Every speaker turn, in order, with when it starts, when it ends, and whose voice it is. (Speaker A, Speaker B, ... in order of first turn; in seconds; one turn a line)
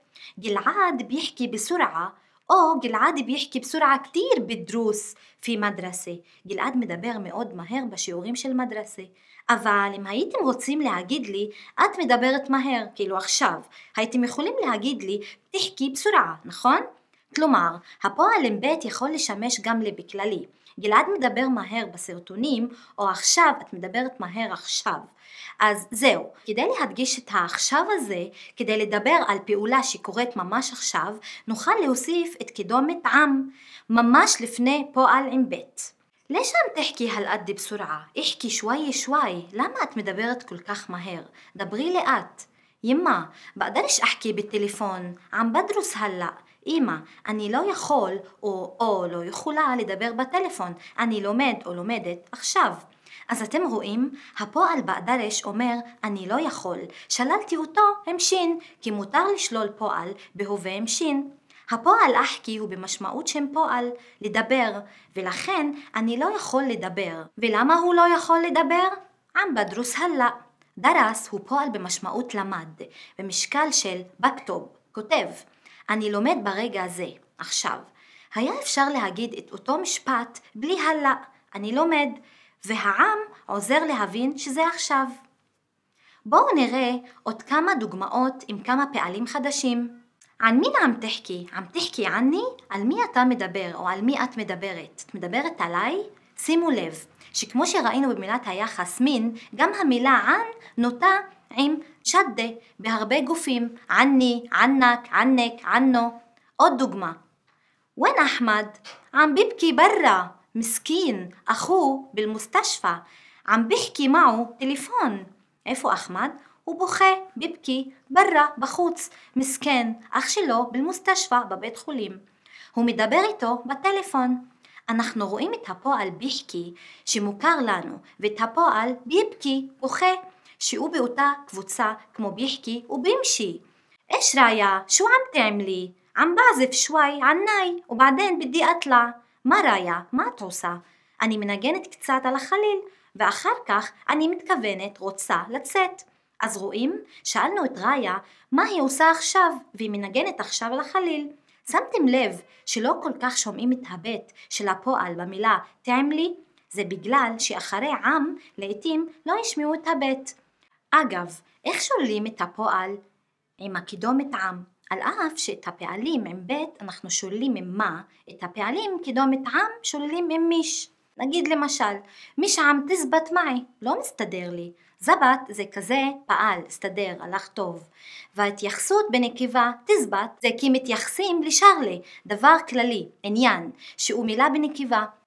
Speaker A: 0.4-25.1
Speaker A: 25.6-85.1
Speaker A: 86.3-89.9
Speaker A: 90.4-107.2
Speaker A: 108.0-122.2
Speaker A: 122.7-133.6
Speaker A: 134.1-160.3
Speaker A: 160.9-163.0
Speaker A: 163.6-185.1